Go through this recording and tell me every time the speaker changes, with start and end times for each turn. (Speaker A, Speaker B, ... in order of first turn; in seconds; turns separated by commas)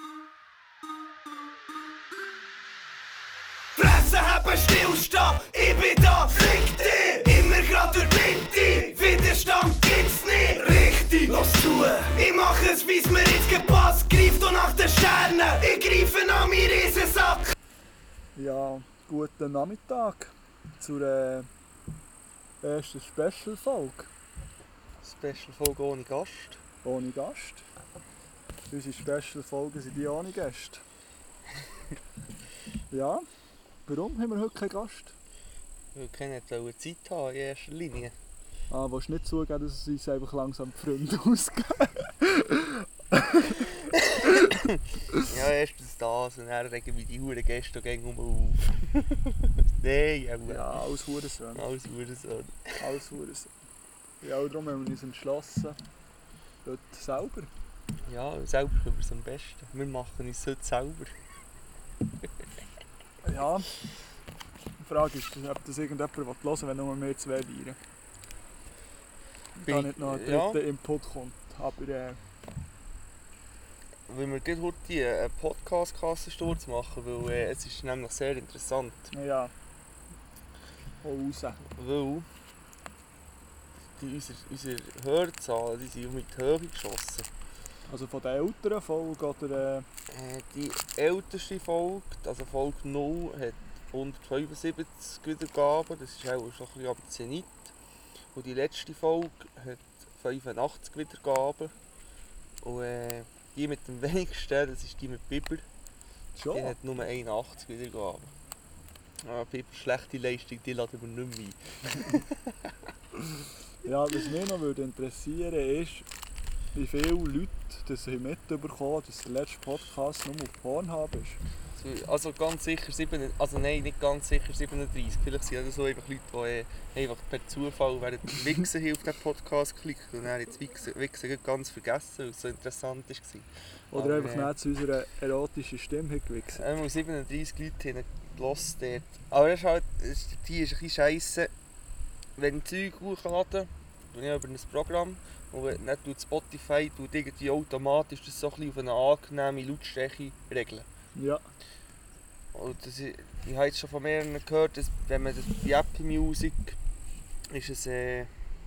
Speaker A: 3.8-17.5, Speaker B: 18.4-21.5, Speaker B: 22.6-24.1, Speaker C: 25.0-26.6, Speaker B: 26.8-27.7, Speaker B: 28.7-30.8, Speaker B: 32.9-33.2, Speaker B: 33.9-35.1, Speaker C: 35.9-38.1, Speaker B: 38.7-43.7, Speaker C: 44.0-50.8, Speaker B: 50.5-51.6, Speaker C: 51.5-52.8, Speaker B: 52.8-53.5, Speaker B: 54.2-55.8, Speaker B: 56.6-57.5, Speaker C: 58.0-61.1, Speaker B: 63.2-63.7, Speaker B: 64.8-67.8, Speaker C: 69.6-70.6, Speaker B: 69.7-72.2, Speaker C: 74.1-79.1, Speaker B: 79.1-79.5, Speaker B: 81.0-81.6, Speaker C: 81.7-82.2, Speaker C: 84.0-87.3, Speaker B: 87.9-89.8, Speaker C: 90.1-97.7, Speaker C: 98.3-101.7, Speaker C: 102.6-105.7, Speaker B: 106.3-106.8, Speaker C: 106.5-108.3, Speaker C: 109.2-112.7, Speaker B: 113.8-116.1, Speaker B: 116.8-121.4, Speaker C: 121.7-134.5, Speaker B: 133.9-136.6, Speaker C: 136.6-141.5, Speaker C: 142.4-150.8, Speaker B: 151.2-151.4, Speaker C: 152.5-156.8, Speaker C: 157.5-158.3